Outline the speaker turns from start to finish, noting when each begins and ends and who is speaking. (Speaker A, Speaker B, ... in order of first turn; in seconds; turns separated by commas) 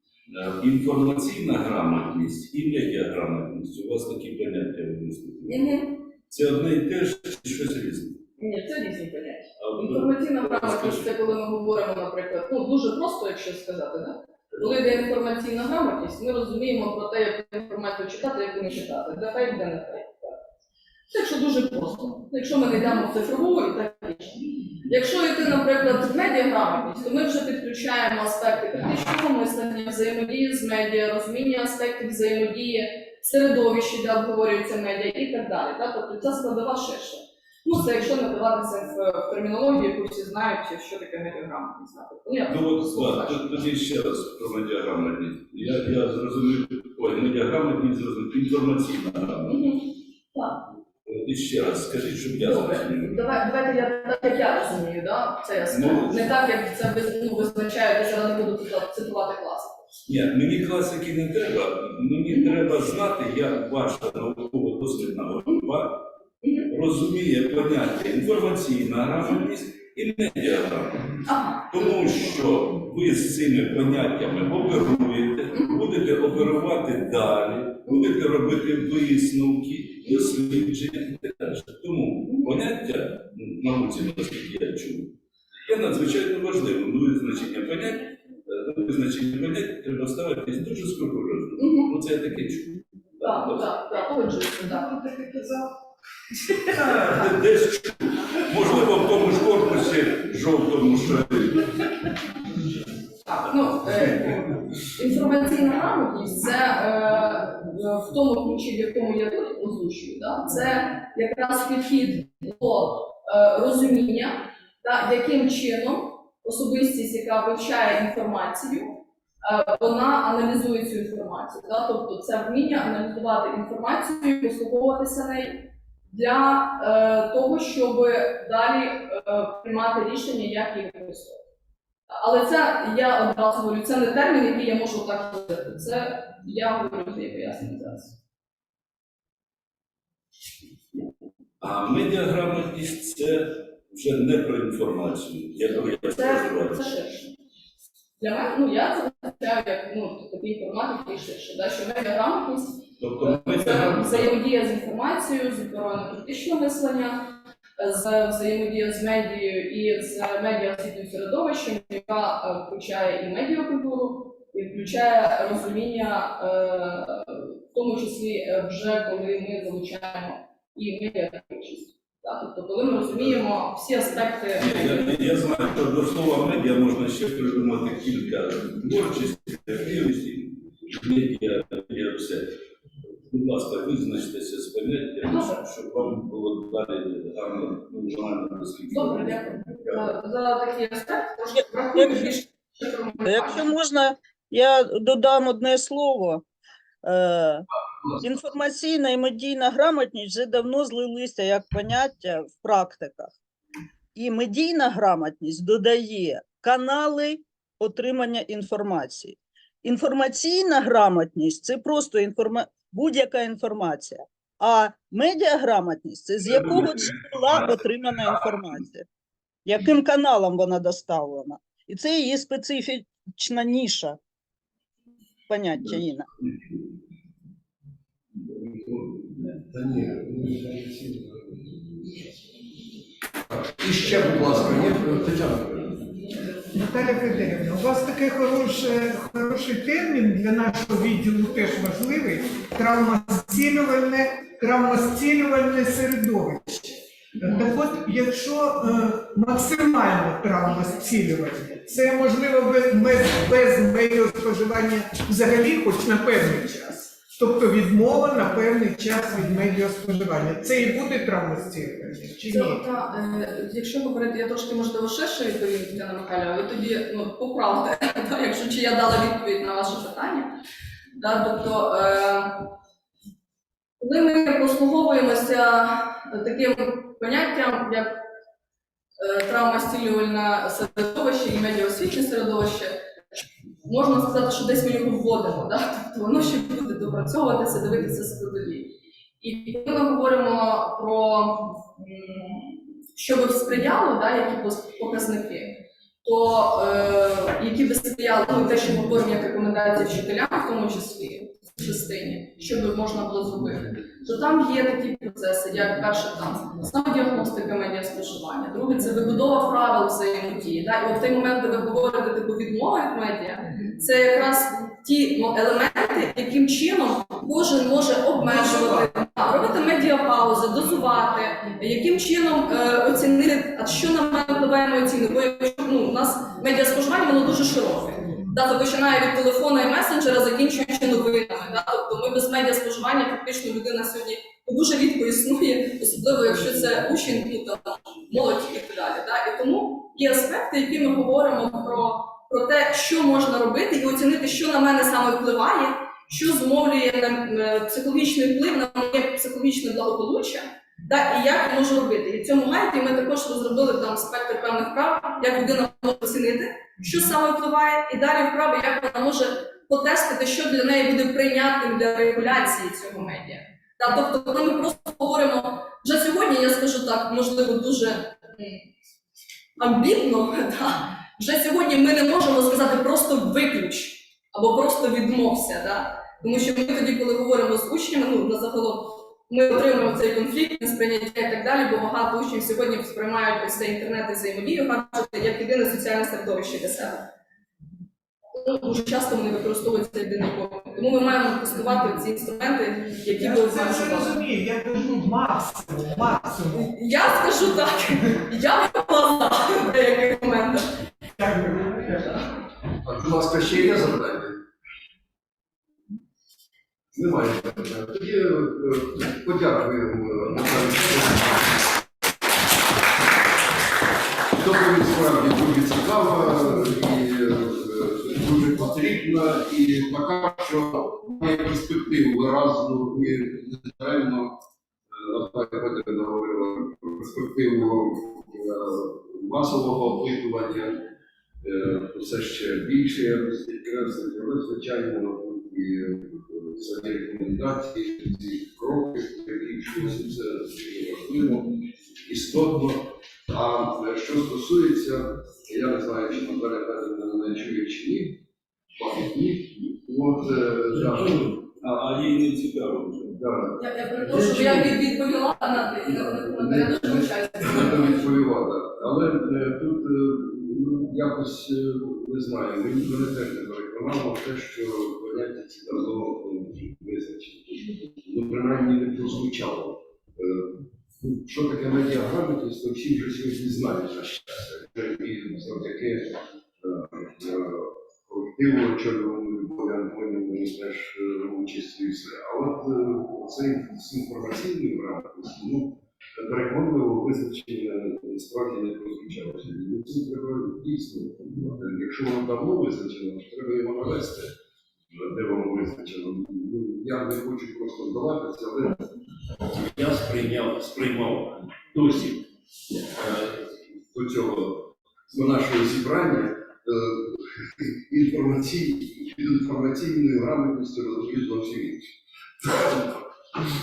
Speaker A: 0.3-5.7, Speaker B: 5.5-6.0, Speaker A: 6.3-8.2, Speaker B: 8.4-20.4, Speaker A: 9.6-11.1, Speaker B: 21.1-43.6, Speaker A: 42.5-49.6, Speaker B: 49.4-50.6, Speaker A: 51.0-53.2, Speaker B: 52.4-59.9, Speaker A: 55.7-56.3, Speaker A: 60.0-66.0, Speaker B: 66.4-66.7, Speaker A: 66.7-85.1, Speaker B: 71.2-72.4, Speaker B: 82.2-82.5, Speaker A: 85.7-93.7, Speaker B: 91.5-91.9, Speaker B: 93.2-95.0, Speaker A: 96.6-101.7, Speaker B: 103.2-131.4, Speaker A: 103.5-104.6, Speaker B: 132.1-138.2, Speaker A: 141.6-146.8, Speaker B: 145.7-147.3, Speaker B: 148.2-175.2, Speaker A: 153.0-154.3, Speaker A: 174.6-182.5, Speaker A: 183.3-189.9, Speaker B: 185.2-185.7, Speaker B: 188.9-193.7, Speaker C: 191.9-192.2, Speaker C: 193.2-196.4, Speaker C: 197.0-197.7, Speaker C: 198.2-203.3, Speaker C: 204.2-219.1, Speaker A: 216.4-218.5, Speaker C: 219.7-224.2, Speaker C: 225.5-226.3, Speaker D: 228.4-232.6, Speaker D: 233.5-236.2, Speaker E: 236.7-262.8, Speaker B: 247.4-247.7, Speaker B: 262.4-270.6, Speaker B: 271.2-272.7, Speaker B: 274.0-278.2, Speaker B: 279.2-368.8, Speaker B: 369.8-387.3, Speaker B: 388.5-394.4, Speaker E: 393.3-396.9, Speaker B: 396.7-400.9, Speaker E: 401.4-402.4, Speaker B: 402.0-402.4, Speaker D: 403.0-404.6, Speaker D: 407.1-411.9, Speaker D: 414.6-424.6, Speaker D: 425.1-431.1, Speaker D: 431.6-448.4, Speaker D: 448.9-451.5, Speaker A: 450.9-453.4, Speaker D: 453.3-455.0, Speaker B: 453.8-458.2, Speaker D: 456.1-494.5, Speaker D: 495.1-499.1, Speaker A: 499.7-502.4, Speaker D: 502.9-503.5, Speaker D: 504.0-513.2